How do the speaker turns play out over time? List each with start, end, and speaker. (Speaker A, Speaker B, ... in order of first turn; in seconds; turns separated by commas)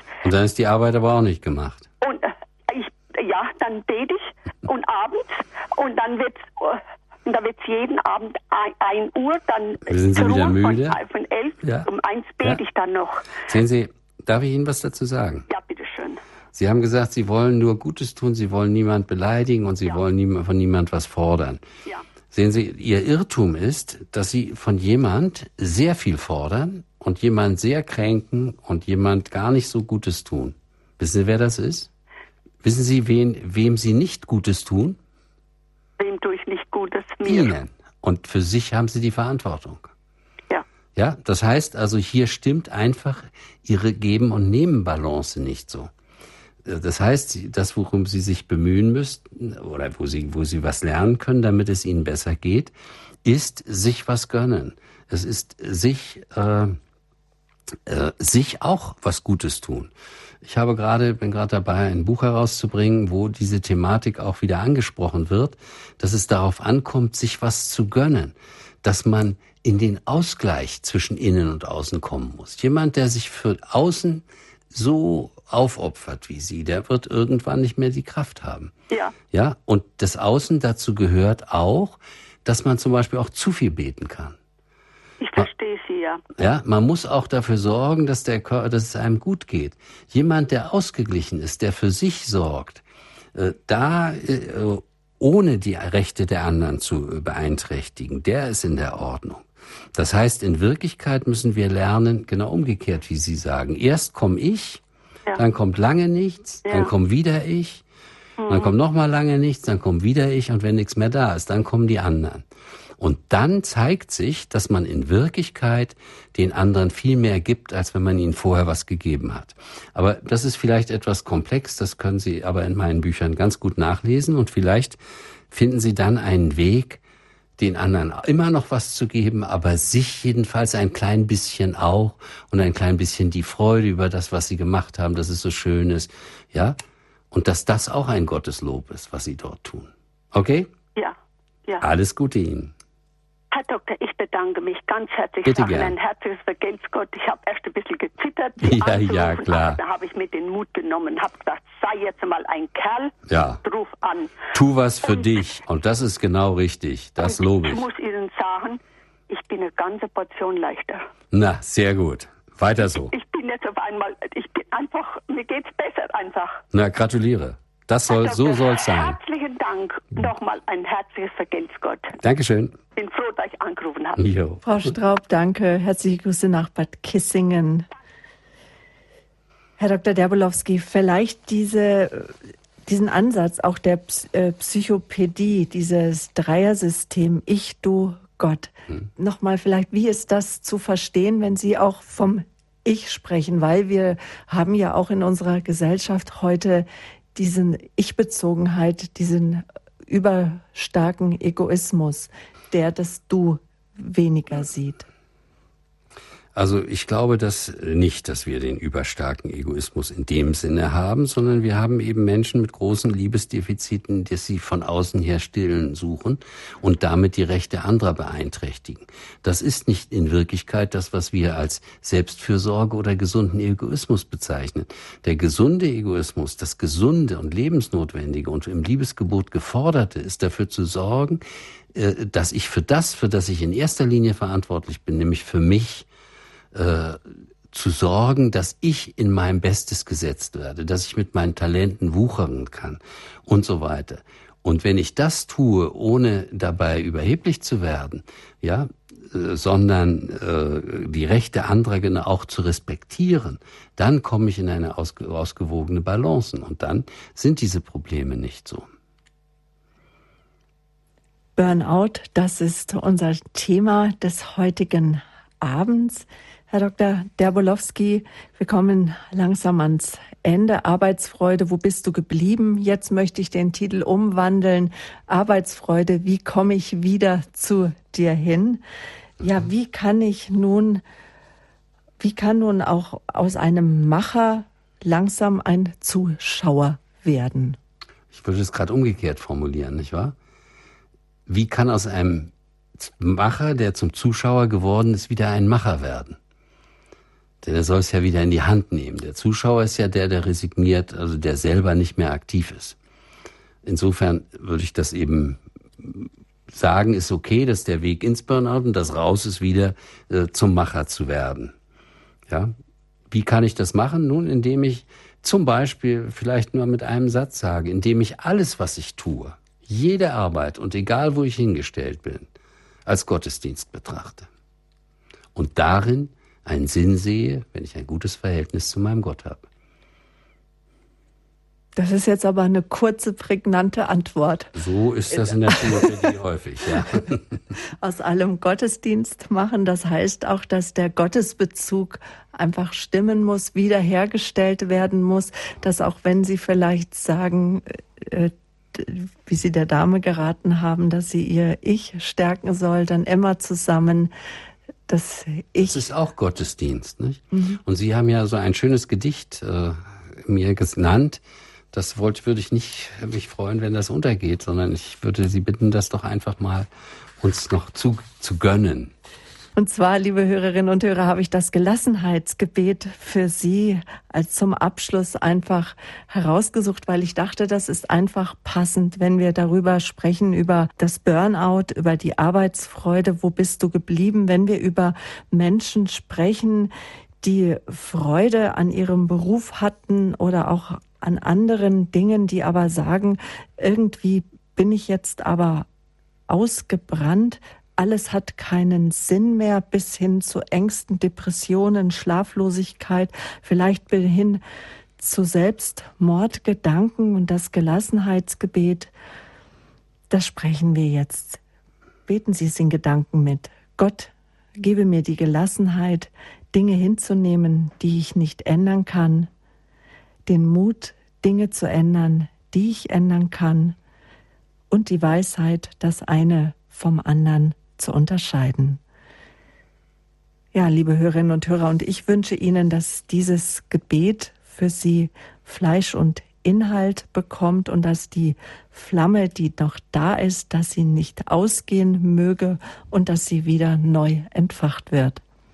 Speaker A: 0.2-1.9, Speaker B: 2.0-13.2, Speaker A: 9.9-11.0, Speaker A: 11.6-11.9, Speaker A: 13.4-15.5, Speaker B: 15.5-16.2, Speaker A: 16.5-21.6, Speaker A: 22.3-31.9, Speaker A: 32.6-35.0, Speaker B: 36.0-37.5, Speaker A: 37.2-39.9, Speaker A: 41.0-45.9, Speaker A: 46.6-52.7, Speaker A: 53.2-56.8, Speaker A: 57.9-59.9, Speaker A: 60.4-78.7, Speaker A: 79.3-84.4, Speaker B: 85.2-86.2, Speaker A: 86.4-92.8, Speaker A: 93.3-104.8, Speaker A: 105.4-107.8, Speaker B: 106.7-106.9, Speaker B: 108.4-108.7, Speaker A: 108.5-112.5, Speaker A: 113.0-125.0, Speaker A: 125.5-127.0, Speaker A: 127.6-136.8, Speaker A: 137.3-140.7, Speaker A: 141.8-142.7, Speaker B: 143.5-154.3, Speaker A: 145.4-145.9, Speaker A: 148.6-149.8, Speaker A: 153.3-153.6, Speaker A: 154.5-157.9, Speaker B: 157.2-161.0, Speaker A: 161.3-163.1, Speaker B: 162.9-166.6, Speaker A: 166.7-169.2, Speaker B: 168.1-172.1, Speaker A: 172.2-172.8, Speaker B: 173.0-174.2, Speaker A: 174.2-174.9, Speaker C: 174.6-177.9, Speaker C: 179.8-182.3, Speaker C: 182.9-205.1, Speaker A: 206.6-231.4, Speaker A: 231.9-236.1, Speaker A: 236.7-237.2, Speaker A: 237.7-258.9, Speaker C: 261.6-278.8, Speaker C: 279.4-281.0, Speaker C: 282.2-287.8, Speaker A: 288.3-290.4, Speaker A: 291.5-296.4, Speaker A: 297.6-303.0, Speaker A: 303.8-311.7, Speaker A: 312.5-312.7, Speaker A: 313.3-322.5, Speaker A: 323.1-324.5, Speaker A: 325.6-329.7, Speaker C: 332.0-334.7, Speaker A: 334.8-337.6, Speaker C: 335.3-336.2, Speaker C: 338.0-354.3, Speaker C: 355.1-356.0, Speaker A: 355.8-361.4, Speaker C: 357.5-357.8, Speaker A: 361.9-366.9, Speaker A: 367.4-369.1, Speaker C: 369.8-395.9, Speaker C: 396.5-404.6, Speaker C: 405.2-409.1, Speaker C: 410.3-411.6, Speaker C: 412.3-419.5, Speaker C: 420.5-424.0, Speaker C: 424.9-429.0, Speaker C: 430.7-445.4